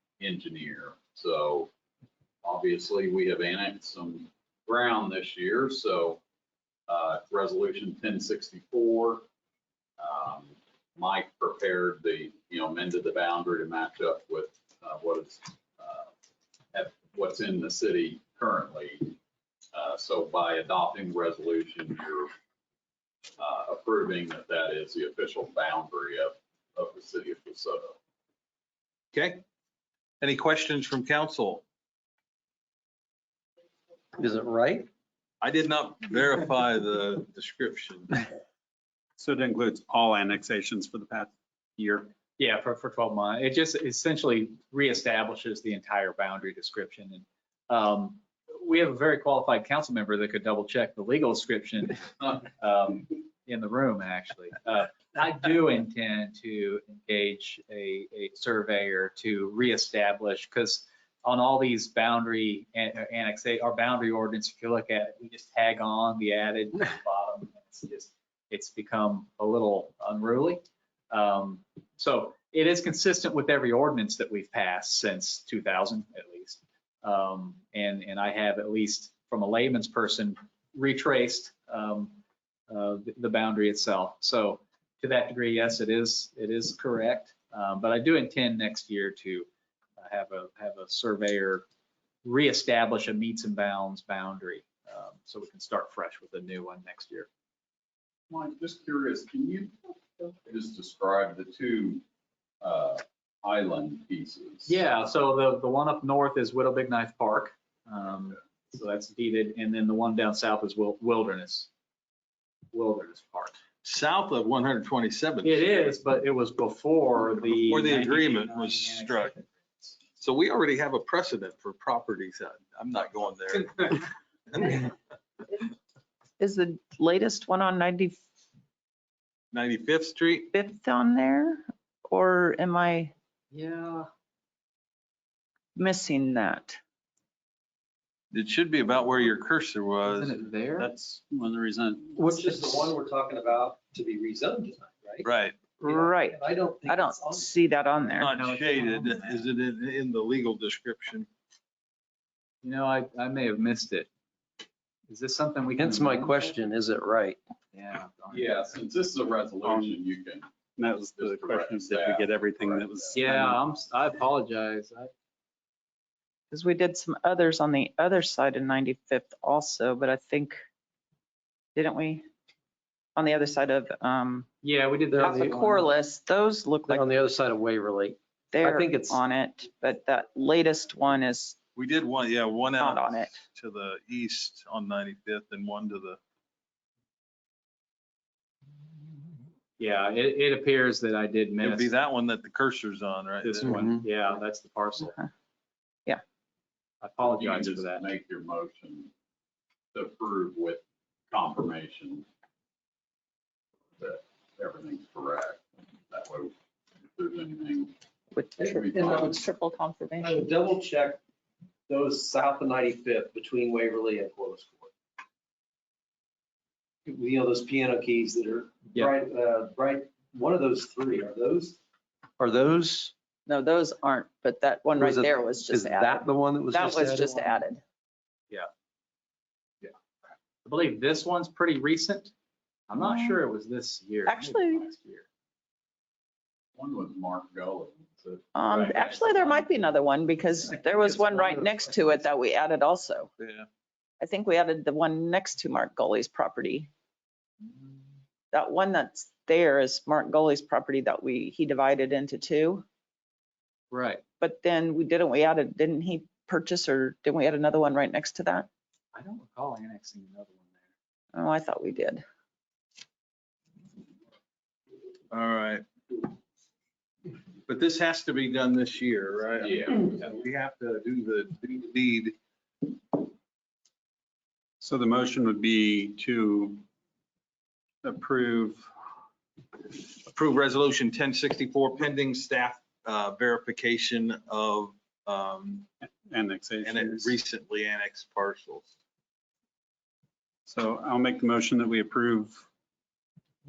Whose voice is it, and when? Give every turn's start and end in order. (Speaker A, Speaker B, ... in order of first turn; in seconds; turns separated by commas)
Speaker A: 0.2-1.7, Speaker A: 2.4-6.2, Speaker A: 6.9-9.3, Speaker A: 10.0-16.1, Speaker A: 16.7-19.2, Speaker A: 19.7-22.3, Speaker A: 23.4-28.0, Speaker B: 29.1-29.4, Speaker B: 30.2-31.6, Speaker C: 34.2-34.9, Speaker B: 35.4-38.2, Speaker D: 39.2-42.1, Speaker E: 42.4-82.2, Speaker E: 82.7-91.7, Speaker E: 92.2-97.3, Speaker A: 98.3-102.0, Speaker A: 102.6-104.8, Speaker E: 104.7-111.7, Speaker E: 112.7-113.6, Speaker B: 113.8-115.9, Speaker E: 115.4-120.0, Speaker B: 117.6-119.3, Speaker B: 120.2-124.9, Speaker F: 126.4-128.2, Speaker B: 129.5-130.5, Speaker F: 130.5-133.1, Speaker E: 133.5-134.1, Speaker F: 135.8-136.8, Speaker B: 138.3-140.3, Speaker E: 140.0-140.9, Speaker D: 140.8-142.3, Speaker C: 142.1-145.3, Speaker B: 145.2-145.8, Speaker C: 145.8-147.5, Speaker F: 145.8-148.3, Speaker B: 148.2-151.3, Speaker E: 148.2-149.5, Speaker E: 152.6-154.1, Speaker E: 155.1-156.6, Speaker C: 155.8-157.4, Speaker E: 157.7-158.6, Speaker A: 158.3-160.5, Speaker D: 159.7-160.0, Speaker D: 160.8-163.6, Speaker A: 161.1-163.2, Speaker E: 163.1-165.1, Speaker F: 166.5-170.6, Speaker F: 171.8-172.3, Speaker F: 173.2-174.5, Speaker E: 174.6-175.9, Speaker C: 175.2-175.4, Speaker F: 175.2-177.1, Speaker C: 176.9-179.2, Speaker F: 178.5-181.6, Speaker B: 181.8-186.2, Speaker F: 182.8-183.4, Speaker E: 189.8-191.9, Speaker B: 191.6-193.9, Speaker E: 193.4-195.2, Speaker C: 193.7-194.0, Speaker E: 197.0-198.1, Speaker A: 197.2-199.1, Speaker A: 199.9-202.3, Speaker A: 204.0-206.5, Speaker A: 207.1-207.9, Speaker F: 208.3-210.4, Speaker C: 208.6-209.4, Speaker A: 208.6-209.4, Speaker C: 210.2-211.2, Speaker C: 211.9-214.9, Speaker C: 217.1-221.8, Speaker C: 222.4-223.1, Speaker F: 223.5-227.8, Speaker C: 225.0-227.5, Speaker E: 230.7-232.3, Speaker E: 232.9-235.2, Speaker F: 233.0-233.3, Speaker F: 234.3-234.8, Speaker A: 236.8-239.4, Speaker F: 238.6-243.3, Speaker E: 238.8-239.6, Speaker F: 244.2-246.9, Speaker F: 248.5-252.8, Speaker E: 253.9-254.2, Speaker F: 254.4-258.7, Speaker E: 259.1-260.9, Speaker F: 261.3-262.2, Speaker B: 265.3-266.2, Speaker B: 267.7-273.3, Speaker A: 269.6-270.2, Speaker D: 274.8-276.8, Speaker D: 278.0-278.9, Speaker B: 279.9-285.9, Speaker D: 286.1-287.4, Speaker B: 286.8-288.9, Speaker D: 290.7-292.7